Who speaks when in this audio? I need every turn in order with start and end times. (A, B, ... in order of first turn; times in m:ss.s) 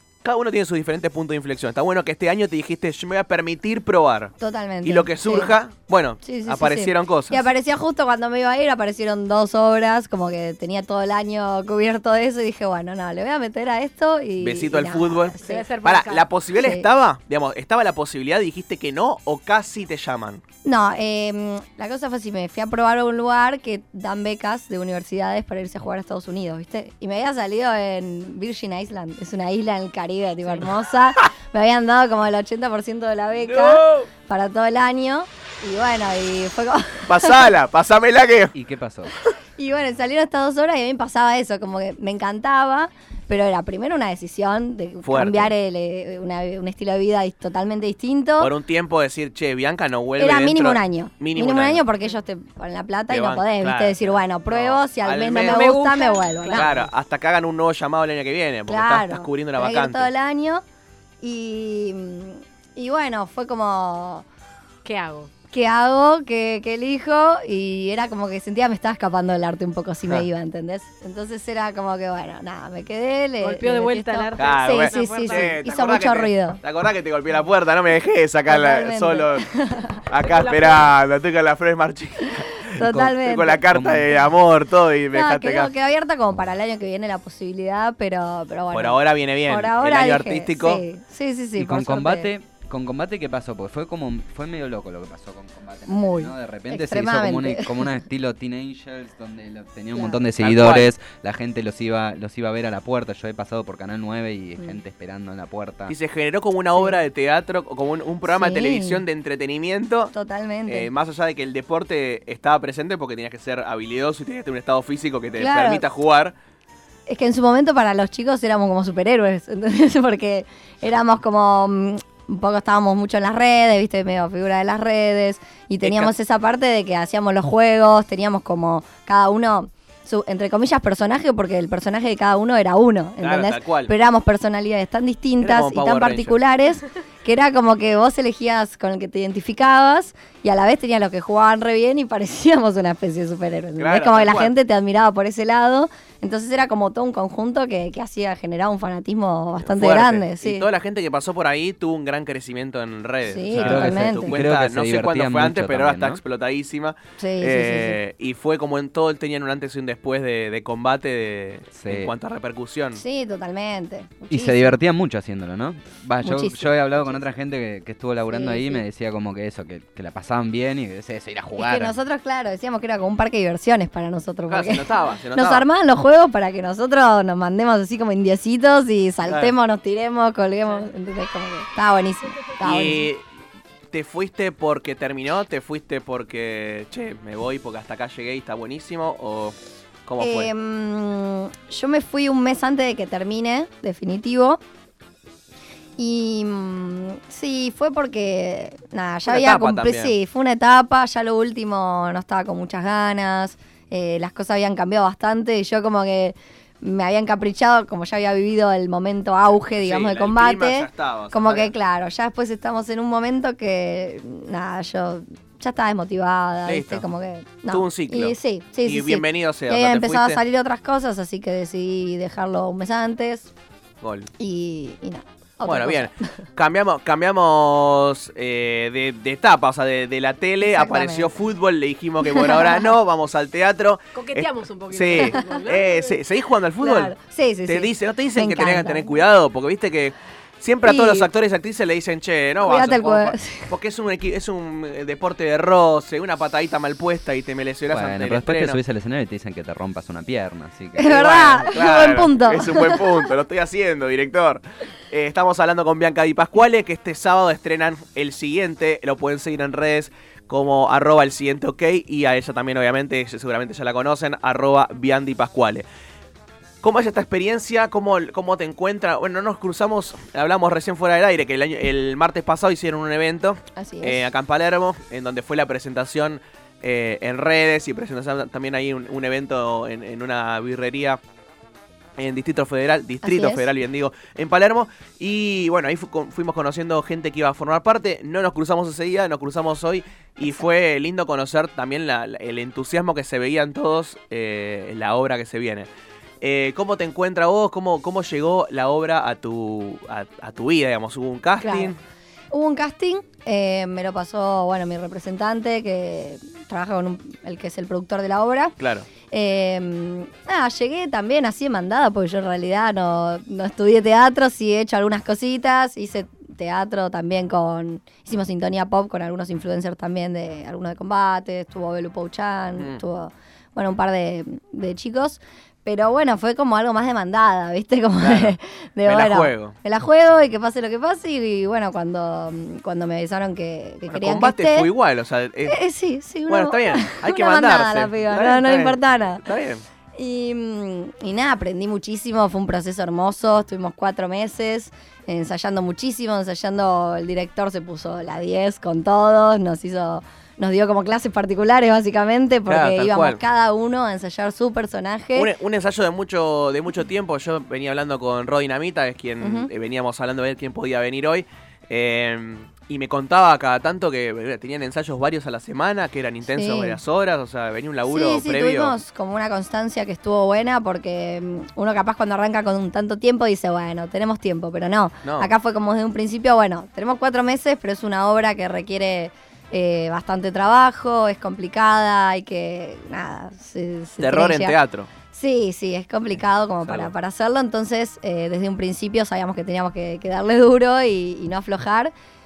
0:00.2-0:07.5 A
0:04.4-0:05.5 B
0:06.2-0:15.6 B
0:14.4-0:20.4 A
0:15.4-0:16.3 C
0:16.6-0:16.9 B
0:20.6-0:37.4 B
0:33.4-0:34.1 A
0:37.0-0:38.5 A
0:38.5-0:39.1 D
0:39.6-0:48.5 B
0:45.0-0:45.5 A
0:48.4-0:51.8 A
0:50.2-0:56.7 B
0:53.1-0:55.6 A
0:55.4-0:56.8 C
0:56.5-1:00.1 A
0:58.7-1:00.6 B
1:01.2-1:04.2 B
1:04.8-1:05.3 C
1:05.5-1:16.6 B
1:13.4-1:15.5 C
1:14.4-1:19.4 A
1:18.5-1:20.0 B
1:20.1-1:25.7 A
1:20.2-1:20.9 C
1:22.7-1:23.7 B
1:22.8-1:23.1 D
1:23.7-1:24.2 D
1:25.1-1:32.3 B
1:28.7-1:30.8 A
1:31.6-1:45.9 D
1:35.9-1:37.9 B
1:39.9-1:40.2 B
1:40.4-1:40.9 A
1:45.9-1:50.1 A
1:48.2-1:49.0 B
1:50.1-1:50.9 B
1:50.7-1:56.3 A
1:55.4-1:55.8 B
1:57.1-2:30.7 B
2:05.8-2:06.1 A
2:13.2-2:13.9 A
2:15.4-2:16.4 A
2:23.8-2:24.5 A
2:29.6-2:43.0 A
2:33.3-2:34.4 B
2:33.5-2:36.2 D
2:37.2-2:38.0 B
2:41.7-2:42.1 D
2:43.0-2:44.8 B
2:44.3-2:51.9 D
2:46.2-2:47.2 B
2:48.3-2:48.8 B
2:51.6-3:03.1 B
2:54.5-2:55.6 A
2:59.2-2:59.5 A
3:02.6-3:03.2 A
3:03.9-3:10.5 A
3:10.2-3:14.6 B
3:16.0-3:43.5 B
3:19.2-3:20.1 A
3:29.8-3:31.7 A
3:36.6-3:37.0 A
3:37.7-3:40.4 A
3:44.0-3:44.3 A
3:44.4-3:46.4 B
3:45.6-3:57.1 A
3:50.6-3:51.4 B
3:52.2-3:52.9 B
3:54.1-3:56.2 C
3:55.1-3:55.6 B
3:56.8-3:59.2 B
3:57.7-4:08.8 A
4:00.8-4:01.3 B
4:02.6-4:03.7 B
4:07.9-4:11.1 D
4:10.9-4:13.0 B
4:11.0-4:25.8 A
4:26.8-4:41.2 A
4:33.7-4:34.3 B
4:42.2-4:55.9 A
4:43.2-4:43.7 B
4:56.4-5:02.0 A
5:01.6-5:01.9 B
5:02.5-5:08.7 B
5:08.8-5:09.1 A
5:09.3-5:34.9 B
5:28.2-5:29.7 A
5:34.1-5:35.8 A
5:35.7-5:39.4 B
5:36.5-5:39.8 A
5:40.2-5:55.5 B
5:52.7-5:53.4 A
5:55.3-6:09.0 A
5:59.4-5:59.7 B
6:06.5-6:07.0 B
6:08.1-6:24.8 B
6:15.2-6:15.5 A
6:24.2-6:25.1 A
6:25.3-6:32.1 B
6:26.8-6:27.1 A